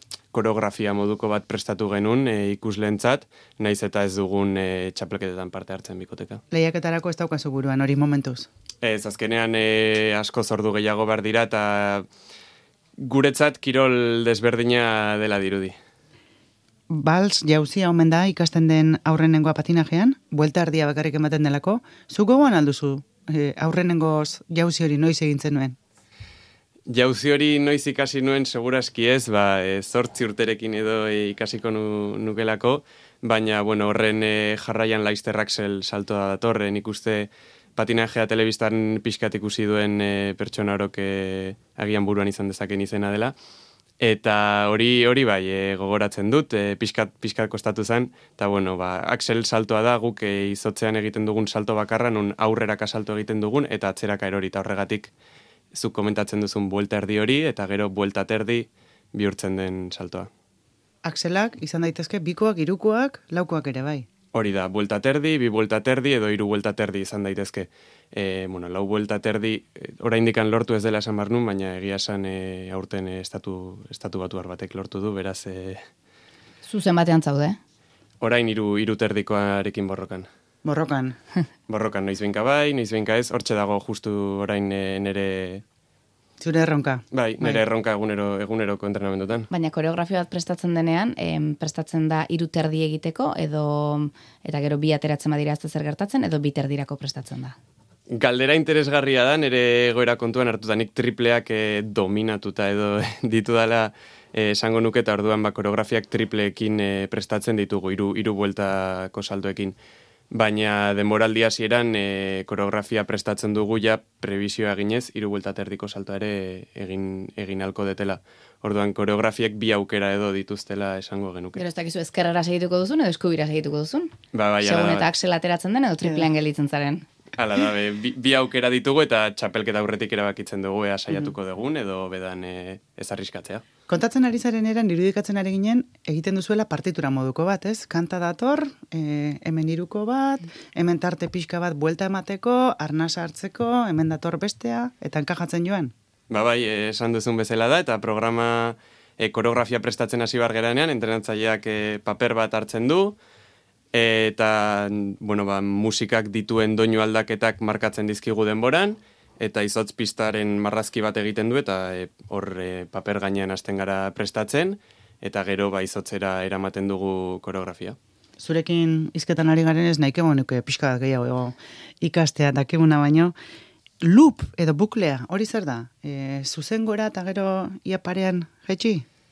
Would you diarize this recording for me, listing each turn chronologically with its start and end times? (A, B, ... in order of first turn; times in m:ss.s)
0:00.3-0:06.4 A
0:06.5-0:08.5 B
0:08.8-0:12.0 A
0:13.0-0:15.7 A
0:16.9-0:25.8 B
0:26.9-0:43.3 A
0:44.0-0:55.1 A
0:55.7-1:00.3 A
1:01.0-1:04.1 B
1:04.3-1:15.8 A
1:16.6-1:17.6 C
1:18.2-1:20.3 A
1:20.6-1:21.2 B
1:21.7-1:25.6 A
1:26.4-1:27.6 B
1:27.1-1:29.5 A
1:29.5-1:37.6 C
1:38.1-1:49.8 A
1:50.3-2:01.6 A
2:01.5-2:07.0 C
2:04.3-2:05.0 A
2:07.4-2:13.6 A
2:13.9-2:25.9 B
2:26.3-2:33.2 A
2:33.9-2:48.0 A
2:48.4-2:53.3 B
2:54.0-2:59.0 B